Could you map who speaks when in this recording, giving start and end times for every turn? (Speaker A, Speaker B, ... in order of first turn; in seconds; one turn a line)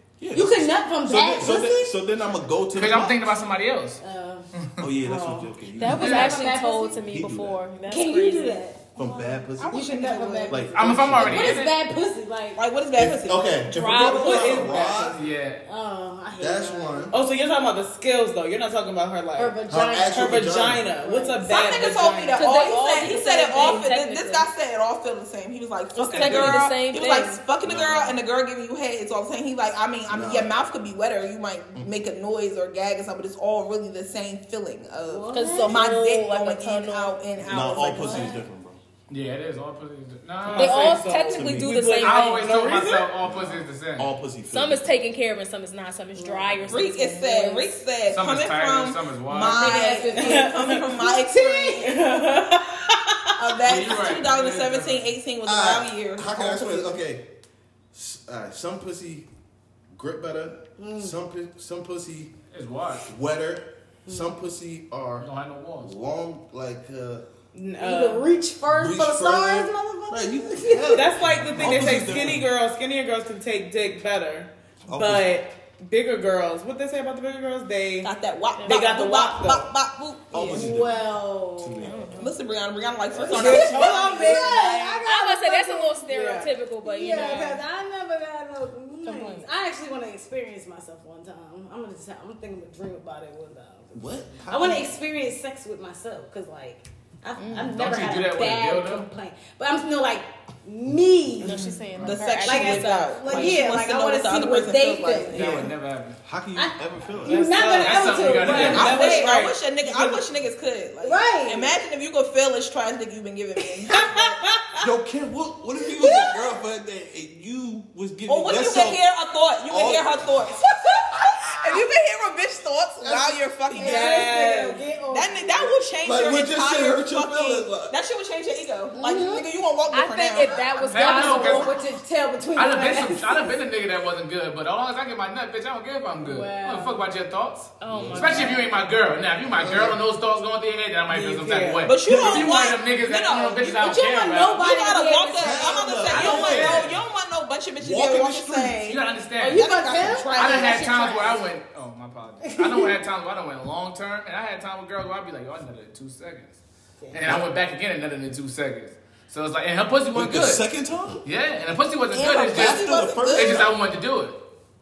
Speaker A: 0.2-3.3
Speaker B: 0.3-2.0
Speaker C: 2.7-4.0
Speaker B: 4.0-4.5
Speaker C: 4.5-4.8
Speaker A: 4.8-6.3
Speaker D: 5.0-5.5
Speaker E: 5.8-8.6
Speaker B: 5.8-7.0
Speaker C: 6.0-6.4
Speaker A: 7.0-7.6
Speaker B: 7.8-12.6
Speaker A: 9.0-11.6
Speaker F: 9.8-10.4
Speaker C: 10.7-11.8
Speaker F: 12.6-14.1
Speaker A: 12.9-15.2
Speaker E: 13.7-14.7
Speaker D: 14.1-15.2
Speaker C: 15.1-15.6
Speaker B: 15.7-17.2
Speaker A: 16.4-17.1
Speaker D: 17.1-19.6
Speaker B: 19.4-20.4
Speaker A: 19.7-20.9
Speaker D: 20.1-22.8
Speaker B: 20.9-21.6
Speaker F: 21.5-38.4
Speaker E: 22.4-24.5
Speaker B: 23.5-23.8
Speaker E: 25.9-27.4
Speaker C: 26.2-26.6
Speaker A: 27.6-28.2
Speaker A: 30.1-30.5
Speaker B: 35.0-35.8
Speaker E: 35.3-37.2
Speaker A: 37.4-38.8
Speaker B: 38.0-38.4
Speaker C: 39.1-41.0
Speaker D: 40.4-43.1
Speaker E: 40.6-42.5
Speaker A: 41.3-41.9
Speaker C: 42.0-44.1
Speaker A: 43.2-44.9
Speaker E: 44.5-47.7
Speaker B: 46.1-46.9
Speaker F: 46.7-51.9
Speaker C: 48.1-49.8
Speaker B: 49.4-51.9
Speaker D: 50.1-50.9
Speaker D: 51.8-53.6
Speaker F: 53.4-57.0
Speaker C: 53.7-55.1
Speaker A: 55.4-57.2
Speaker A: 57.9-59.3
Speaker A: 59.9-62.3
Speaker B: 60.8-61.2
Speaker C: 62.5-63.1
Speaker A: 63.1-65.3
Speaker B: 64.1-64.3
Speaker C: 65.2-65.9
Speaker A: 65.8-67.3
Speaker D: 67.5-68.3
Speaker B: 67.8-71.1
Speaker A: 68.7-72.5
Speaker D: 70.9-78.1
Speaker C: 71.6-72.3
Speaker A: 74.9-75.3
Speaker F: 78.0-80.7
Speaker E: 78.6-78.9
Speaker D: 78.7-79.7
Speaker A: 80.3-81.1
Speaker B: 80.5-82.0
Speaker A: 81.6-82.3
Speaker E: 81.8-82.3
Speaker F: 82.2-85.0
Speaker A: 83.1-84.1
Speaker B: 83.2-86.1
Speaker D: 83.3-84.5
Speaker E: 85.0-87.6
Speaker D: 86.1-86.5
Speaker B: 86.8-101.8
Speaker E: 89.0-89.5
Speaker A: 93.9-95.0
Speaker C: 97.7-99.1
Speaker E: 101.4-103.6
Speaker D: 101.5-101.7
Speaker F: 102.0-105.7
Speaker B: 102.4-105.5
Speaker A: 105.3-105.7
Speaker C: 105.3-106.2
Speaker A: 106.2-107.6
Speaker B: 106.5-109.4
Speaker D: 107.2-110.2
Speaker C: 107.7-109.2
Speaker F: 108.7-114.4
Speaker B: 111.0-111.7
Speaker B: 113.8-114.2
Speaker D: 114.4-114.9
Speaker A: 114.8-119.0
Speaker B: 116.0-116.4
Speaker F: 118.3-124.4
Speaker A: 119.7-121.8
Speaker A: 123.0-123.5
Speaker B: 123.7-125.8
Speaker D: 123.8-124.8
Speaker F: 125.1-131.8
Speaker A: 126.0-128.0
Speaker B: 128.9-129.5
Speaker E: 129.9-131.8
Speaker C: 130.9-131.8
Speaker B: 130.9-133.5
Speaker C: 132.6-144.7
Speaker B: 136.2-137.0
Speaker E: 137.8-138.7
Speaker A: 137.9-138.6
Speaker A: 139.5-140.0
Speaker D: 141.1-141.9
Speaker F: 141.8-143.8
Speaker A: 142.1-142.5
Speaker B: 143.8-146.9
Speaker F: 144.6-149.0
Speaker E: 144.9-146.2
Speaker A: 145.4-147.0
Speaker A: 147.8-148.8
Speaker C: 148.9-149.7
Speaker B: 149.4-151.4
Speaker F: 149.5-151.0
Speaker C: 150.3-156.6
Speaker B: 152.4-152.9
Speaker B: 157.0-157.3
Speaker C: 157.1-160.7
Speaker A: 160.1-161.2
Speaker C: 161.2-164.4
Speaker F: 162.1-163.7
Speaker A: 162.3-163.7